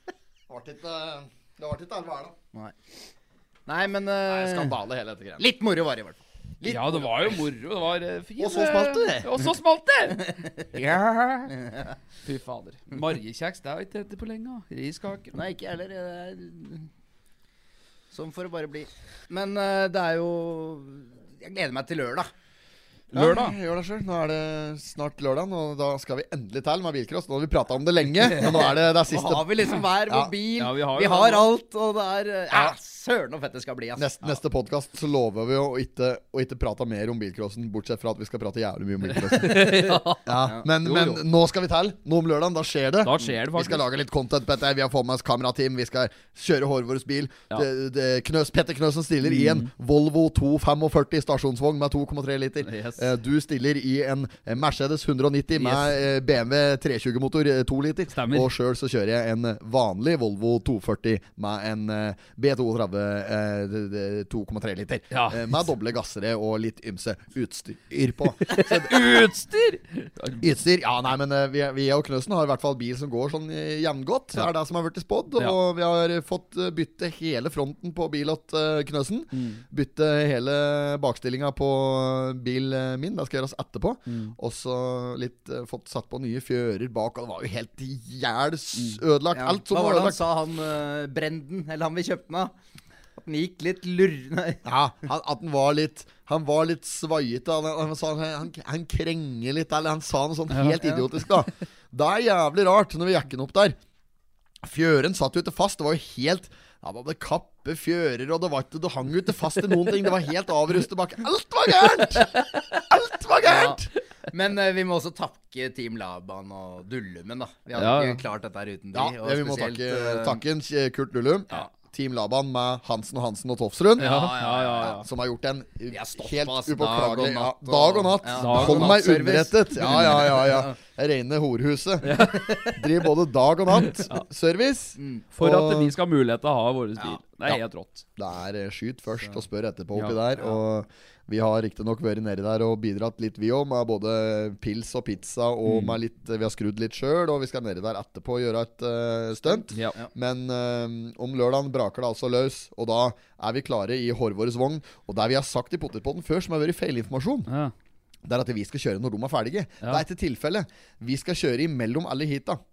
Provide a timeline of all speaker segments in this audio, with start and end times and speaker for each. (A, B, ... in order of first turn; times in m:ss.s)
0:00.5-0:02.4 A
0:03.7-0:04.8 B
0:04.3-0:05.4 A
0:05.4-0:06.2 B
0:06.6-0:07.4 A
0:06.6-0:11.5 C
0:08.4-0:09.3 A
0:11.5-0:12.0 B
0:12.2-0:15.4 C
0:15.3-0:16.9 B
0:18.1-0:22.3 B
0:23.1-0:23.6 C
0:23.1-0:30.3 A
0:28.3-0:34.4 B
0:30.6-0:31.5 C
0:34.0-1:09.1 A
0:39.2-0:41.2 C
0:39.4-0:40.6 B
0:43.0-0:43.8 C
0:49.2-0:49.7 C
0:52.6-0:53.1 C
0:55.6-0:55.9 C
0:58.1-0:58.5 C
1:05.1-1:05.4 C
1:08.5-1:10.4 C
1:10.4-1:30.2 A
1:19.3-1:19.6 C
1:24.1-1:24.4 C
1:29.3-1:32.5 B
1:33.2-1:34.6 B
1:34.6-1:43.8 A
1:40.5-1:40.8 C
1:40.8-1:41.1 B
1:44.6-1:53.9 A
1:53.4-2:00.4 B
1:57.8-1:58.2 C
1:58.9-2:15.9 A
2:04.0-2:05.0 B
2:04.0-2:05.0 C
2:05.9-2:10.7 B
2:08.3-2:09.0 C
2:10.0-2:10.3 C
2:12.0-2:12.9 C
2:13.9-2:14.2 C
2:15.0-2:15.2 B
2:15.3-2:18.1 C
2:18.2-2:37.5 A
2:25.6-2:26.0 C
2:37.5-2:37.7 C
2:38.2-2:42.6 A